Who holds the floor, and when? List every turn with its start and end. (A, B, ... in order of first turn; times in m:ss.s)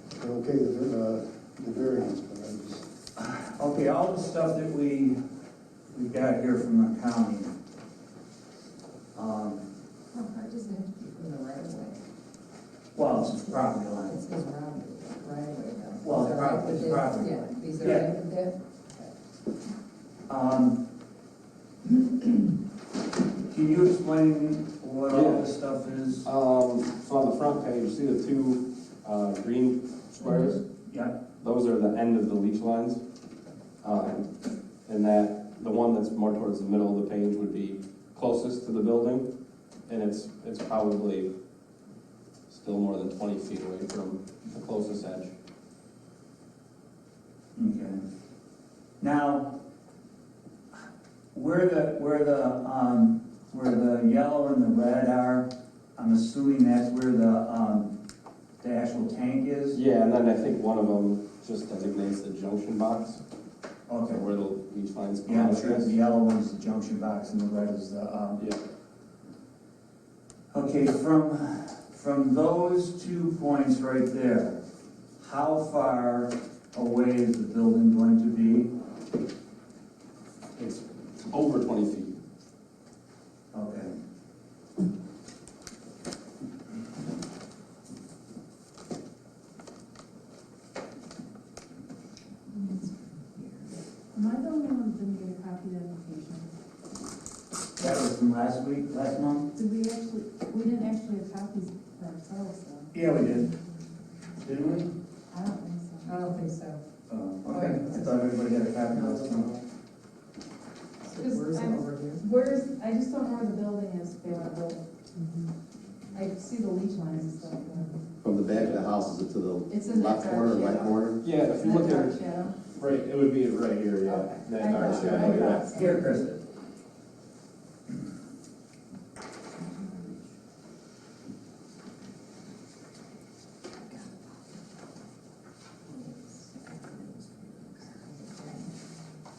0:00.1-0:02.8 A
0:03.2-0:05.2 B
0:05.9-0:07.5 B
0:09.1-0:09.6 B
0:10.1-0:12.0 C
0:12.9-0:14.2 B
0:14.0-0:19.1 C
0:16.0-0:18.1 B
0:20.3-0:20.8 B
0:23.5-0:26.3 B
0:25.1-0:25.4 D
0:26.2-0:30.6 D
0:30.9-0:31.2 B
0:31.4-0:33.0 D
0:33.8-0:34.3 D
0:34.8-0:39.2 D
0:39.9-0:41.3 D
0:42.5-0:45.3 D
0:47.6-0:48.0 B
0:49.0-0:49.6 B
0:51.3-0:57.9 B
0:58.6-0:59.8 B
0:59.7-1:03.2 D
1:03.9-1:04.2 B
1:04.1-1:05.9 D
1:05.2-1:08.4 B
1:10.5-1:14.6 B
1:15.2-1:18.7 B
1:20.6-1:22.1 D
1:23.5-1:23.9 B
1:32.5-1:32.9 E
1:33.4-1:33.6 C
1:34.1-1:36.5 E
1:37.8-1:39.5 B
1:39.6-1:43.4 E
1:42.9-1:43.5 B
1:44.4-1:44.9 B
1:45.3-1:46.5 E
1:46.0-1:46.8 C
1:47.1-1:49.6 B
1:47.5-1:48.2 C
1:48.9-1:49.6 C
1:51.0-1:52.3 C
1:51.2-1:54.8 E
1:56.1-1:58.1 E
1:58.2-2:01.2 F
1:58.5-1:58.8 D
1:59.7-2:02.6 E
2:01.2-2:05.7 D
2:04.1-2:06.2 E
2:04.7-2:05.6 F
2:05.6-2:06.4 B
2:09.6-2:10.1 E
2:15.9-2:18.7 C